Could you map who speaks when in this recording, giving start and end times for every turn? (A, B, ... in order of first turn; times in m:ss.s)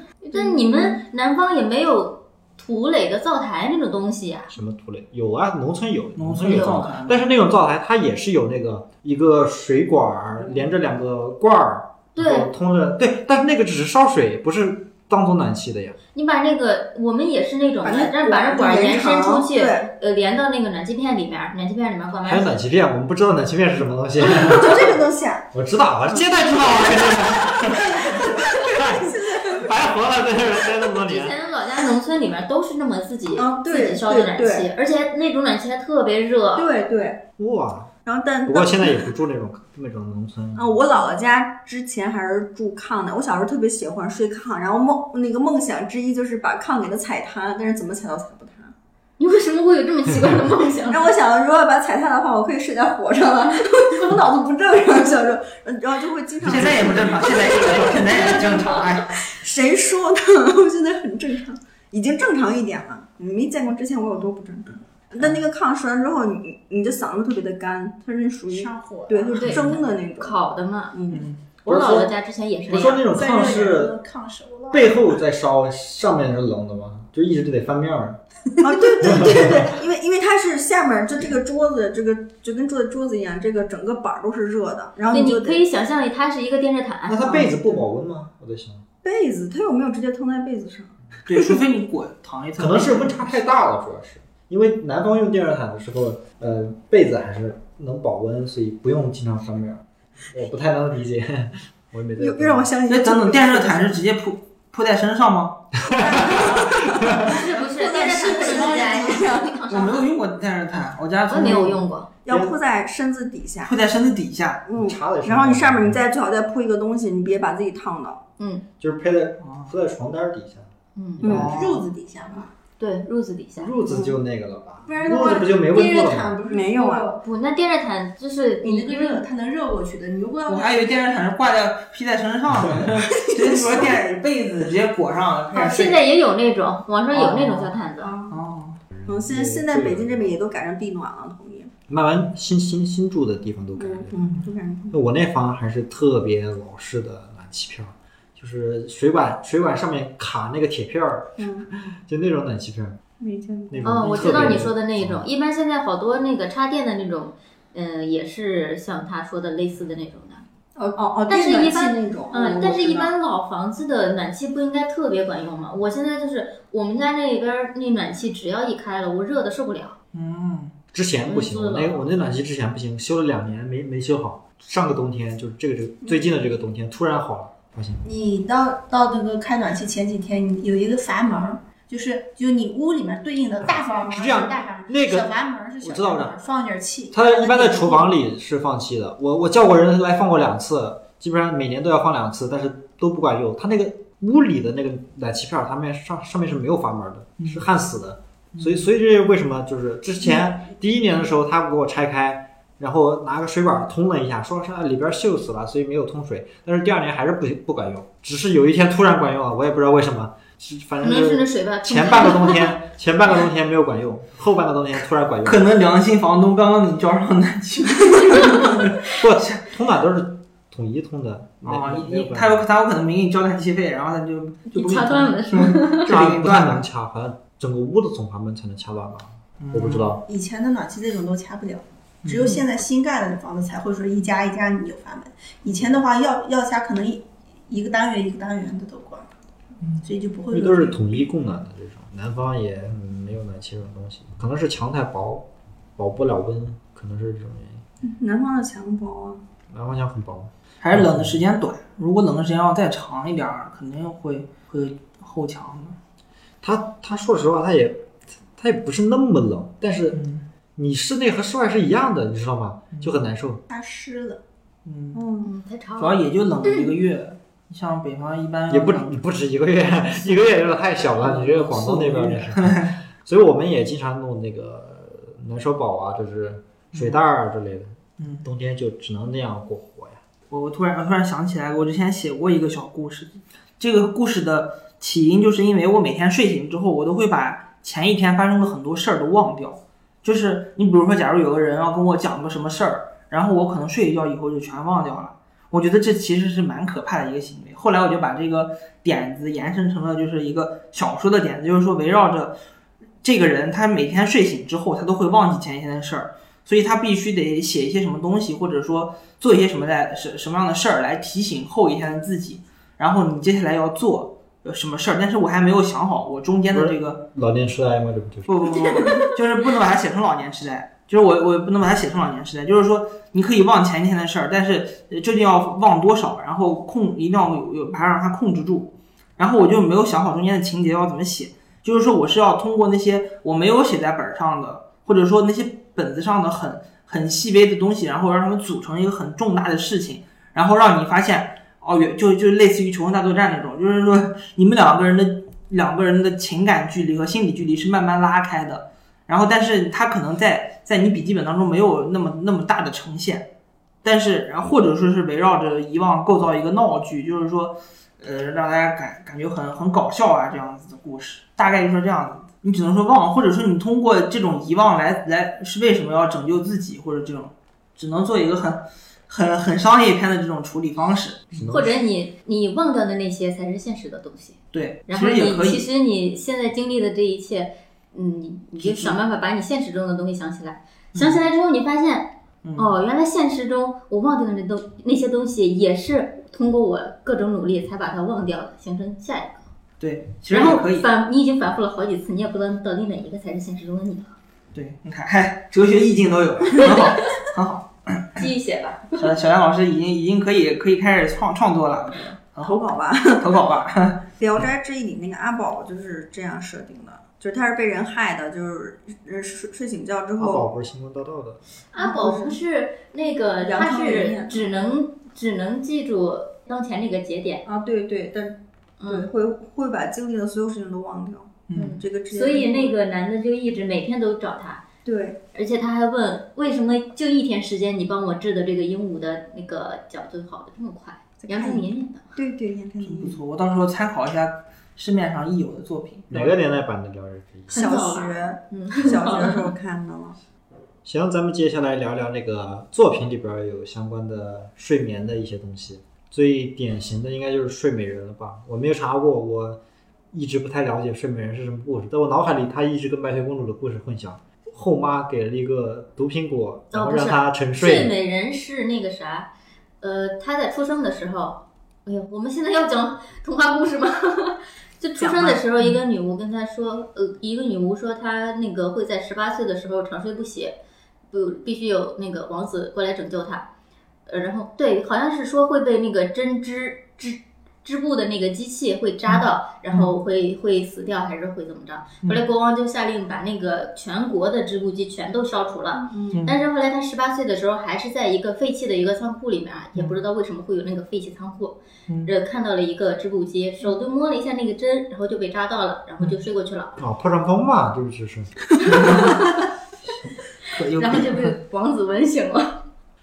0:00.2-0:04.5 A
0:00.3-0:01.0 B
0:04.5-0:16.0 C
0:06.2-0:07.2 D
0:06.4-0:06.8 A
0:12.2-0:12.5 A
0:16.1-0:22.6 A
0:17.8-0:19.9 B
0:22.2-0:25.0 C
0:24.2-0:25.5 B
0:25.5-0:31.4 C
0:26.1-0:29.8 B
0:30.9-0:36.7 A
0:33.4-0:34.7 B
0:36.5-0:37.2 B
0:37.4-0:37.9 C
0:38.0-0:39.1 B
0:38.4-0:40.8 C
0:40.6-0:48.7 B
0:49.2-0:51.1 A
0:50.9-0:58.5 B
0:56.4-0:59.2 D
0:59.1-1:10.4 B
1:08.5-1:09.8 E
1:09.3-1:13.1 A
1:10.9-1:11.3 B
1:11.1-1:11.4 D
1:11.6-1:12.1 C
1:12.7-1:13.9 C
1:13.1-1:15.0 E
1:14.7-1:18.2 C
1:18.6-1:25.6 B
1:19.0-1:19.7 C
1:25.1-1:27.5 A
1:27.1-1:28.8 C
1:29.0-1:31.5 B
1:31.3-1:33.4 D
1:32.6-1:42.7 C
1:42.2-1:44.0 B
1:42.9-1:45.7 D
1:45.8-1:47.2 C
1:45.8-1:49.8 B
1:47.2-1:50.0 A
1:49.7-1:51.8 D
1:51.3-1:52.1 A
1:52.2-1:53.7 B
1:52.3-1:52.5 C
1:53.6-1:54.6 D
1:54.6-1:58.2 B
1:54.8-1:56.0 C
1:58.4-1:58.6 A
1:58.8-2:00.7 C
1:59.4-1:59.7 D
2:01.0-2:01.5 A
2:01.2-2:01.7 C
2:01.2-2:01.8 D
2:01.2-2:02.5 E
2:02.8-2:03.7 A
2:03.6-2:06.4 C
2:03.8-2:04.2 B
2:04.8-2:07.2 E
2:06.5-2:07.1 B
2:07.2-2:09.2 A
2:08.6-2:10.9 E
2:10.4-2:16.0 D
2:12.6-2:12.9 C
2:13.3-2:13.9 E
2:15.5-2:18.1 A
2:17.1-2:18.8 D
2:18.0-2:18.4 E
2:18.9-2:20.4 C
2:19.1-2:21.7 B
2:21.9-2:24.3 C
2:23.8-2:24.9 B
2:24.9-2:33.0 C
2:31.4-2:31.7 B
2:33.2-2:33.9 B
2:33.7-2:35.2 C
2:33.8-2:40.4 A
2:40.8-2:43.1 B
2:41.3-2:50.0 A
2:50.1-2:50.7 D
2:50.9-2:58.0 C
2:51.2-2:52.0 A
2:58.0-3:08.1 E
3:03.6-3:06.4 C
3:07.1-3:35.7 C
3:17.4-3:17.6 D
3:18.5-3:18.9 D
3:31.0-3:32.8 A
3:35.4-3:39.6 D
3:39.1-3:42.6 C
3:41.6-3:46.8 D
3:44.7-3:46.1 A
3:46.0-3:50.2 C
3:49.6-3:50.2 D
3:50.3-3:59.3 E
3:52.2-3:52.6 D
4:00.0-4:01.0 E
4:00.5-4:07.8 C
4:08.0-4:09.4 B
4:09.7-4:11.4 C
4:10.8-4:16.0 D
4:16.6-4:20.2 C
4:20.1-4:20.4 D
4:20.8-4:23.6 C
4:23.7-4:24.4 E
4:24.8-4:25.2 D
4:25.1-4:25.5 B
4:25.4-4:26.9 A
4:26.0-4:29.2 D
4:28.7-4:40.2 C
4:30.3-4:30.5 D
4:31.1-4:33.0 D
4:36.9-4:37.2 D
4:38.2-4:38.4 D
4:40.5-5:02.6 D
5:03.2-5:17.2 D
5:16.7-5:18.7 C
5:18.5-5:53.5 D
5:54.0-6:11.7 D
6:11.5-6:12.0 C
6:11.7-6:29.7 A
6:14.7-6:15.9 D
6:18.8-6:19.2 D
6:21.1-6:21.4 D
6:22.6-6:22.9 D
6:30.0-6:31.1 D
6:30.5-6:34.4 A
6:34.7-6:38.5 D
6:38.4-6:39.3 A
6:39.2-6:42.9 D
6:42.6-6:43.5 B
6:43.4-6:44.2 D
6:44.4-6:50.7 B
6:50.4-6:51.6 C
6:51.9-6:57.6 A
6:52.0-6:52.6 B
6:53.6-6:54.6 B
6:57.6-7:02.9 B
6:59.0-6:59.3 A
7:01.7-7:02.0 D
7:01.7-7:04.8 A
7:05.0-7:05.4 B
7:05.5-7:12.4 A
7:11.4-7:13.4 B
7:13.0-7:16.6 D
7:16.3-7:17.8 C
7:17.7-7:20.4 B
7:17.7-7:19.7 A
7:21.0-7:29.8 C
7:30.3-7:38.1 C
7:36.9-7:39.5 A
7:40.0-7:50.8 A
7:45.2-7:45.6 B
7:51.3-7:53.7 A
7:54.2-8:17.0 A
7:59.3-8:00.1 D
8:05.9-8:06.4 B
8:06.3-8:06.6 D
8:17.0-8:18.6 C
8:18.8-8:19.4 D
8:18.9-8:19.6 A
8:20.7-8:21.6 D
8:20.9-8:22.8 A